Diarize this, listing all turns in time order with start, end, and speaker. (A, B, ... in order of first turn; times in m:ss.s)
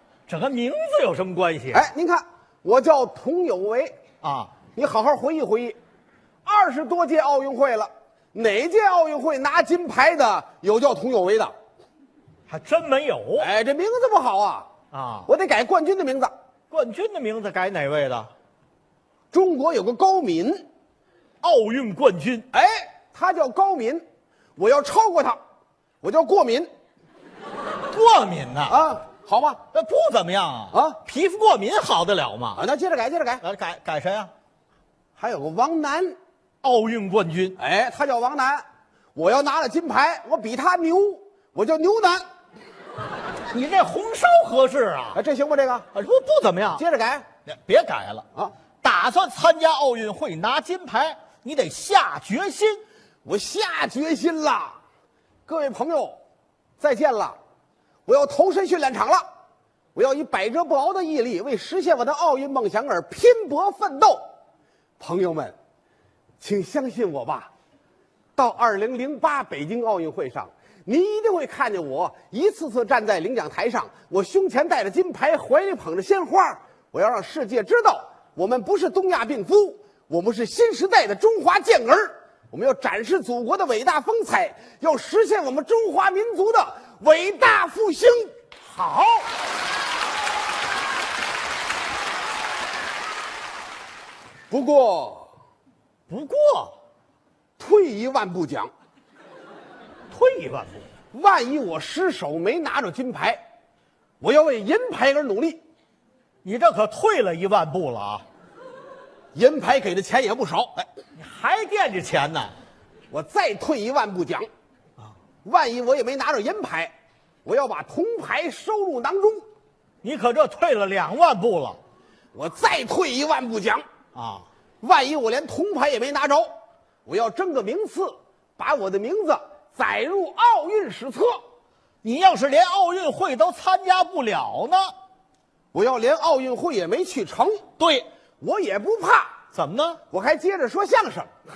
0:00.3-0:01.8 A
0:01.7-0:04.0 B
0:04.2-0:04.5 A
0:04.8-0:05.8 B
0:06.4-0:11.5 B
0:12.5-0:13.5 A
0:13.4-0:14.7 B
0:14.9-0:15.3 A
0:15.3-0:16.3 B
0:16.7-0:18.3 A
0:19.3-0:20.6 B
0:21.4-0:22.4 A
0:22.5-0:24.0 B
0:24.6-0:25.4 B
0:26.0-0:26.7 B
0:27.9-0:28.8 A
0:28.7-0:29.6 B
0:29.7-0:32.6 A
0:30.7-0:31.0 B
0:32.6-0:33.4 B
0:33.4-0:34.3 A
0:35.2-0:36.2 B
0:36.6-0:37.6 A
0:37.6-0:38.6 B
0:39.2-0:42.2 B
0:43.5-0:45.2 A
0:45.1-0:45.9 B
0:45.9-0:46.8 A
0:46.8-0:47.3 B
0:47.5-0:48.2 A
0:48.8-0:52.8 A
0:53.2-0:54.8 B
0:55.5-0:56.2 B
0:56.8-0:57.4 B
0:58.1-0:59.2 B
1:00.0-1:04.2 B
1:05.0-1:05.6 B
1:06.4-1:07.5 B
1:08.4-1:28.3 B
1:28.7-1:29.3 A
1:34.5-1:35.3 B
1:36.1-1:36.8 A
1:37.6-1:38.7 B
1:40.1-1:40.9 A
1:41.1-1:43.4 B
1:44.2-1:45.6 B
1:46.4-1:48.2 A
1:49.4-1:50.9 B
1:51.2-1:52.5 A
1:53.1-1:54.5 B
1:55.4-1:56.9 B
1:57.4-1:59.4 B
2:00.0-2:01.8 A
2:02.3-2:03.8 B
2:04.1-2:04.5 A
2:04.8-2:06.5 B
2:07.1-2:11.4 B
2:12.0-2:14.9 A
2:15.7-2:17.6 B
2:17.8-2:18.0 A
2:18.4-2:19.4 B
2:19.5-2:20.0 A
2:20.1-2:21.3 B